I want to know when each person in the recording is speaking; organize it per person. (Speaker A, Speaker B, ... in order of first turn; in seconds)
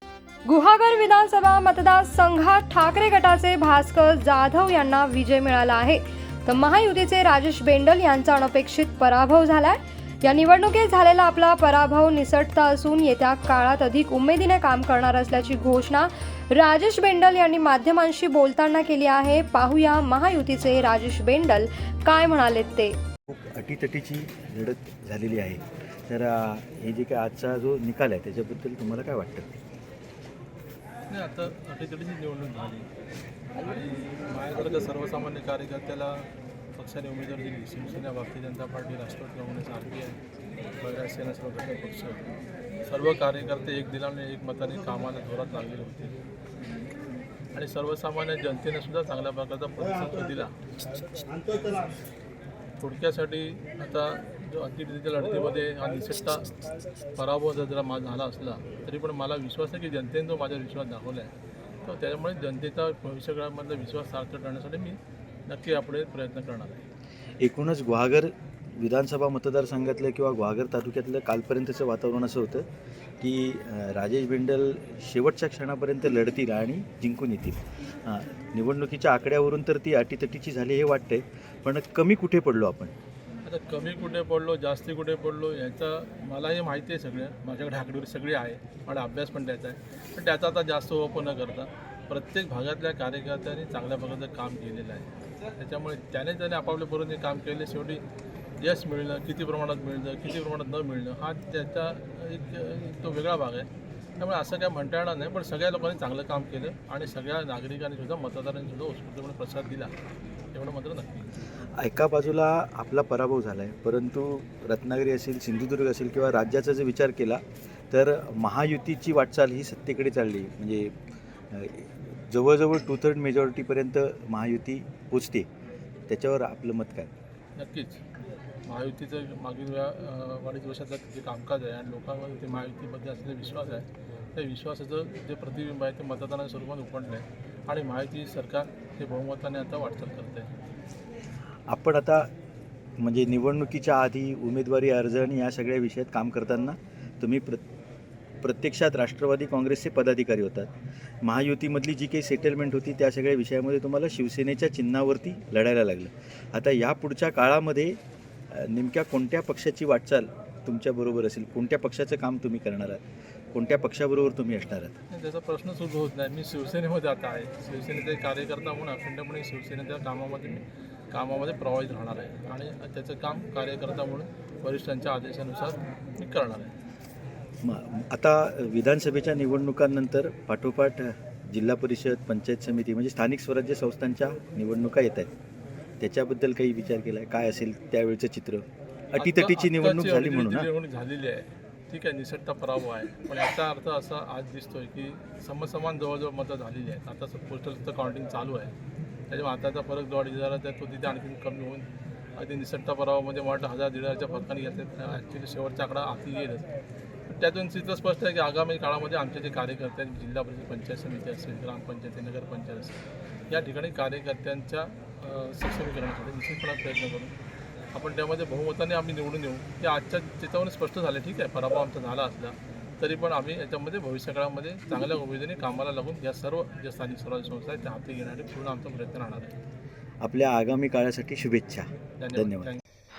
Speaker A: 0.5-23.0
Speaker B: 23.3-29.5, 67.4-72.7, 73.2-82.9, 111.8-121.0, 121.5-125.5, 126.1-127.1, 141.7-142.3, 143.0-147.6, 148.4-150.7, 151.2-158.0, 158.5-163.0, 163.5-164.9, 177.6-185.3, 186.0-190.7, 230.2-232.7
Speaker C: 31.1-32.9, 33.6-40.2, 40.8-42.2, 42.9-46.1, 47.5-50.6, 51.3-51.9, 52.8-56.6, 57.1-61.3, 61.9-66.8, 83.5-98.0, 98.6-103.7, 104.2-109.9, 110.5-111.3, 127.6-128.0, 128.7-140.5, 165.1-176.7, 189.2-198.7, 199.3-206.7, 207.3-217.3, 217.9-229.5, 232.2-232.8